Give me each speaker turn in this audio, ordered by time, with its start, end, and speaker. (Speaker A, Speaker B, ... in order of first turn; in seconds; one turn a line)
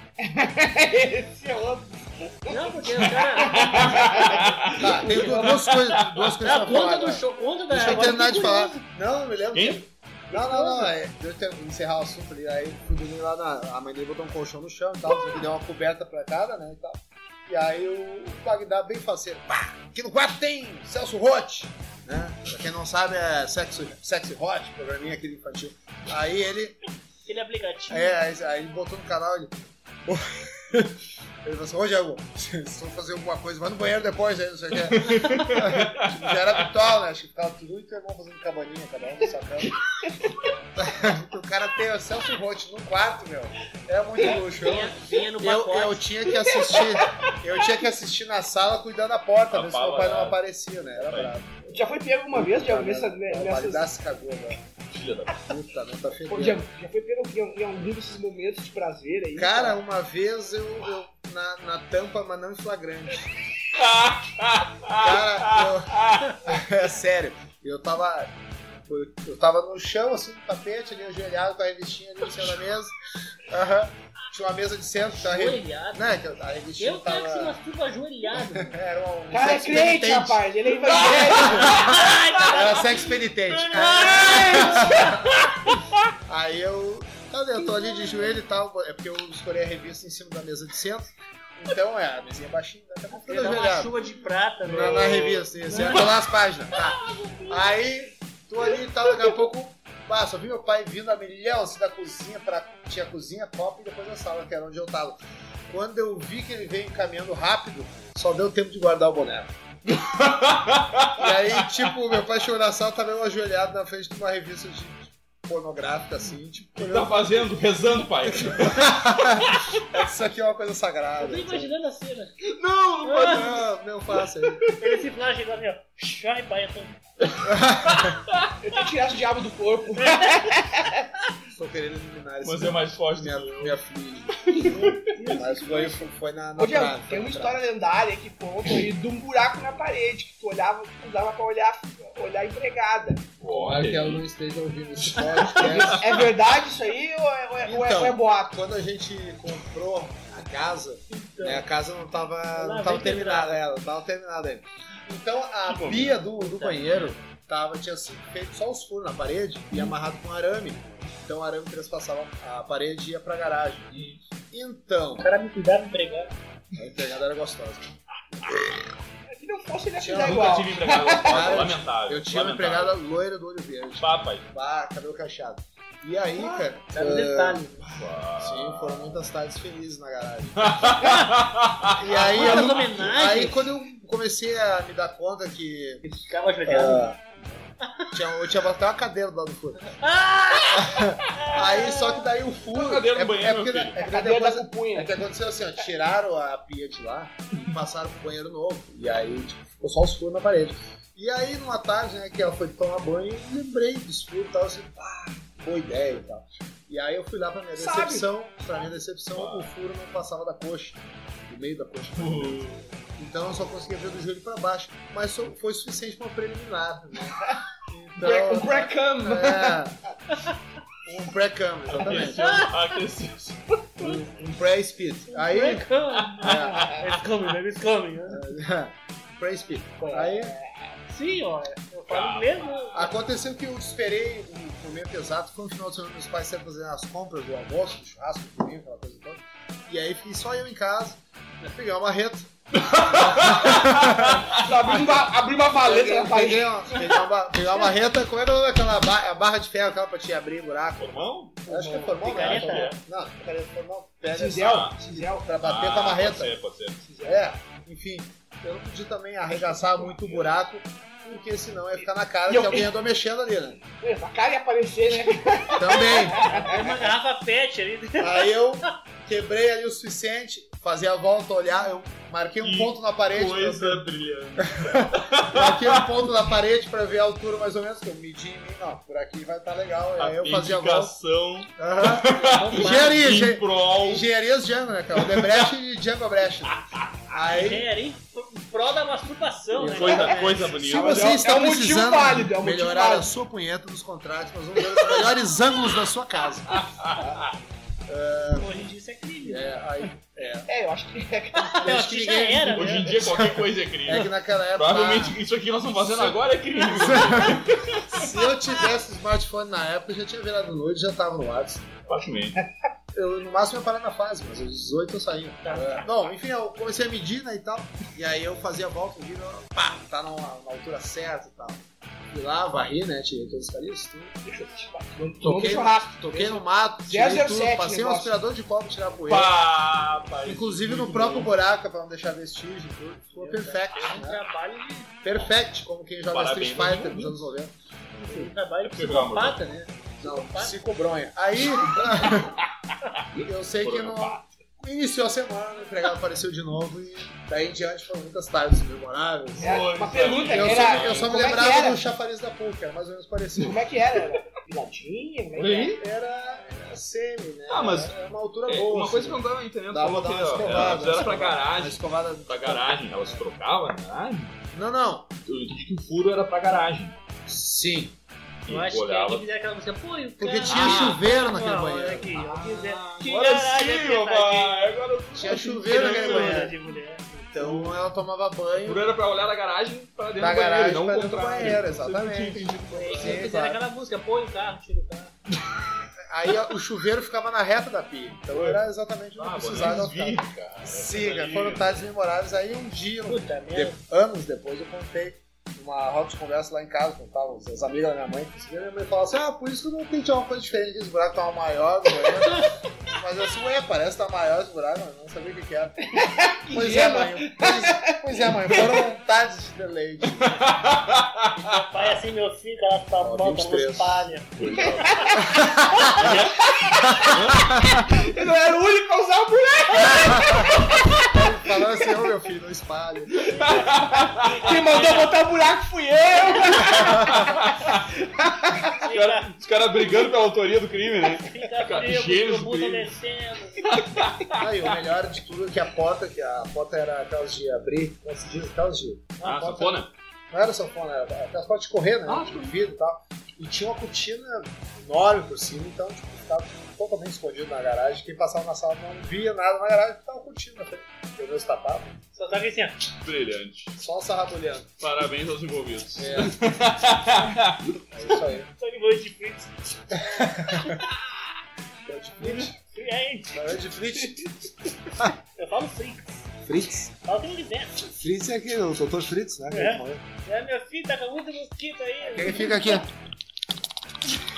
Speaker A: 0.2-5.6
Speaker B: 2.5-4.4
Speaker C: 3.4-6.4
Speaker D: 4.8-26.8
Speaker B: 6.4-8.8
Speaker C: 9.5-9.8
Speaker B: 10.3-10.9
Speaker B: 27.2-28.2
Speaker D: 27.9-39.8
Speaker C: 34.8-36.3
Speaker D: 40.8-51.5
Speaker B: 44.6-46.0
Speaker A: 46.3-47.2
Speaker C: 49.5-50.4
Speaker C: 51.0-51.4
Speaker A: 51.7-53.8
Speaker D: 52.3-54.6
Speaker C: 54.9-55.5
Speaker D: 55.5-56.6
Speaker A: 56.3-59.8
Speaker D: 59.3-63.3
Speaker C: 63.7-66.4
Speaker D: 65.0-68.3
Speaker D: 68.8-77.5
Speaker B: 75.2-76.0
Speaker B: 76.8-78.8
Speaker D: 78.3-85.4
Speaker A: 79.3-82.0
Speaker B: 80.9-85.7
Speaker A: 84.2-85.1
Speaker D: 86.2-93.9
Speaker B: 87.6-88.4
Speaker B: 93.1-96.1
Speaker D: 94.6-105.2
Speaker B: 97.0-97.6
Speaker D: 105.7-109.5
Speaker C: 109.9-111.7
Speaker D: 111.1-117.4
Speaker C: 116.8-119.7
Speaker D: 118.2-121.7
Speaker B: 121.2-122.3
Speaker C: 122.4-123.7
Speaker B: 123.0-123.5
Speaker D: 123.2-124.7
Speaker B: 124.7-127.0
Speaker D: 127.5-128.2
Speaker A: 128.6-131.0
Speaker B: 130.0-130.3
Speaker D: 131.5-137.6
Speaker C: 132.4-133.8
Speaker C: 134.4-134.8
Speaker B: 134.6-136.1
Speaker A: 136.6-143.3
Speaker C: 143.4-144.2
Speaker D: 143.4-146.2
Speaker A: 145.6-148.6
Speaker C: 145.6-146.3
Speaker D: 147.6-163.9
Speaker B: 151.1-151.6
Speaker B: 152.5-153.6
Speaker B: 155.7-157.2
Speaker C: 163.9-164.2
Speaker D: 164.5-165.3
Speaker B: 165.2-166.3
Speaker D: 166.7-167.9
Speaker A: 169.3-171.6
Speaker D: 170.0-170.5
Speaker C: 170.2-173.0
Speaker D: 171.2-181.1
Speaker C: 174.0-174.5
Speaker B: 176.9-177.7
Speaker C: 177.9-179.3
Speaker C: 180.6-182.9
Speaker B: 181.0-181.3
Speaker D: 182.0-186.0
Speaker B: 182.0-183.6
Speaker B: 186.0-187.1
Speaker D: 186.7-187.4
Speaker B: 187.8-188.2
Speaker D: 188.1-189.9
Speaker B: 189.9-192.3
Speaker D: 190.7-220.0
Speaker C: 192.7-194.0
Speaker A: 194.0-195.1
Speaker A: 207.8-208.3
Speaker C: 209.3-209.7
Speaker C: 212.1-212.8
Speaker A: 218.2-219.8
Speaker D: 221.0-222.6
Speaker C: 221.9-224.2
Speaker B: 222.1-222.7
Speaker D: 224.0-225.9
Speaker B: 225.3-228.5
Speaker C: 226.2-227.0
Speaker D: 226.4-227.0
Speaker D: 228.3-230.5
Speaker B: 230.0-230.5
Speaker A: 230.2-230.6
Speaker B: 231.1-233.1
Speaker C: 232.1-233.1
Speaker D: 232.9-244.4
Speaker C: 242.8-245.1
Speaker A: 244.5-247.2
Speaker D: 245.7-256.5
Speaker C: 251.0-251.6
Speaker B: 251.7-252.9
Speaker A: 251.7-252.1
Speaker C: 252.3-253.0
Speaker A: 254.2-255.5
Speaker C: 254.6-255.0
Speaker C: 255.6-257.0
Speaker A: 257.0-257.4
Speaker D: 257.2-263.8
Speaker C: 259.5-260.6
Speaker A: 262.5-262.9
Speaker A: 264.0-266.7
Speaker D: 265.7-266.5
Speaker B: 266.3-268.5
Speaker D: 268.2-274.1
Speaker C: 272.6-276.4
Speaker D: 274.6-281.1
Speaker C: 280.2-284.2
Speaker D: 281.8-287.9
Speaker B: 282.3-283.3
Speaker C: 285.1-285.7
Speaker B: 287.5-290.6
Speaker D: 289.7-297.5
Speaker C: 289.8-291.5
Speaker A: 290.3-293.3
Speaker C: 296.7-297.4
Speaker D: 298.1-298.8
Speaker B: 298.5-299.7
Speaker D: 299.4-300.7
Speaker A: 300.7-301.9
Speaker B: 301.6-303.1
Speaker D: 301.8-305.4
Speaker C: 302.7-308.3
Speaker D: 305.9-312.0
Speaker C: 312.1-312.6
Speaker D: 313.1-324.3
Speaker B: 315.6-316.1
Speaker A: 324.4-328.3
Speaker D: 325.4-329.5
Speaker C: 329.2-331.5
Speaker D: 330.4-334.4
Speaker B: 333.4-335.1
Speaker D: 335.2-337.7
Speaker C: 336.3-337.5
Speaker B: 338.1-340.8
Speaker D: 338.2-338.5
Speaker C: 338.8-339.6
Speaker D: 340.2-342.6
Speaker C: 343.3-344.5
Speaker D: 343.4-349.8
Speaker C: 349.6-351.6
Speaker A: 349.6-352.0
Speaker D: 350.3-353.8
Speaker A: 353.6-356.0
Speaker C: 355.5-356.0
Speaker D: 356.0-363.4
Speaker C: 357.7-358.1
Speaker C: 358.6-364.6
Speaker D: 364.7-365.3
Speaker C: 365.4-367.2
Speaker D: 367.5-368.1
Speaker C: 368.6-369.4
Speaker B: 368.7-377.4
Speaker D: 370.4-372.4
Speaker C: 370.6-371.2
Speaker C: 372.3-377.0
Speaker D: 375.3-376.7
Speaker D: 377.5-379.0
Speaker C: 377.6-378.0
Speaker C: 378.8-383.4
Speaker D: 380.4-383.8
Speaker B: 382.9-385.3
Speaker D: 386.3-406.2
Speaker C: 388.5-388.8
Speaker C: 389.4-392.1
Speaker B: 393.2-394.0
Speaker A: 406.1-409.0
Speaker D: 406.7-410.7
Speaker C: 410.4-412.2
Speaker B: 411.5-415.4
Speaker D: 413.2-414.3
Speaker C: 414.6-415.4
Speaker A: 414.7-415.4
Speaker D: 415.4-416.4
Speaker B: 415.9-416.2
Speaker C: 416.1-418.3
Speaker A: 416.3-421.6
Speaker D: 417.1-417.3
Speaker D: 421.3-423.6
Speaker C: 423.5-424.7
Speaker B: 423.5-425.3
Speaker A: 423.6-427.6
Speaker C: 426.8-428.0
Speaker A: 428.4-428.9
Speaker B: 429.0-429.6
Speaker C: 429.1-433.1
Speaker B: 431.4-434.2
Speaker C: 433.8-434.9
Speaker D: 434.5-440.0
Speaker C: 439.4-440.1
Speaker D: 440.5-452.1
Speaker C: 442.2-442.8
Speaker B: 452.3-453.0
Speaker C: 453.1-453.9
Speaker D: 454.0-454.9
Speaker C: 455.0-457.9
Speaker D: 456.2-456.6
Speaker D: 458.1-458.7
Speaker B: 458.8-461.0
Speaker D: 460.3-461.0
Speaker D: 462.0-462.8
Speaker B: 462.8-463.8
Speaker D: 463.5-464.5
Speaker B: 465.6-466.5
Speaker D: 466.6-467.1
Speaker B: 467.2-468.2
Speaker D: 468.2-470.2
Speaker B: 469.7-473.0
Speaker D: 472.2-473.1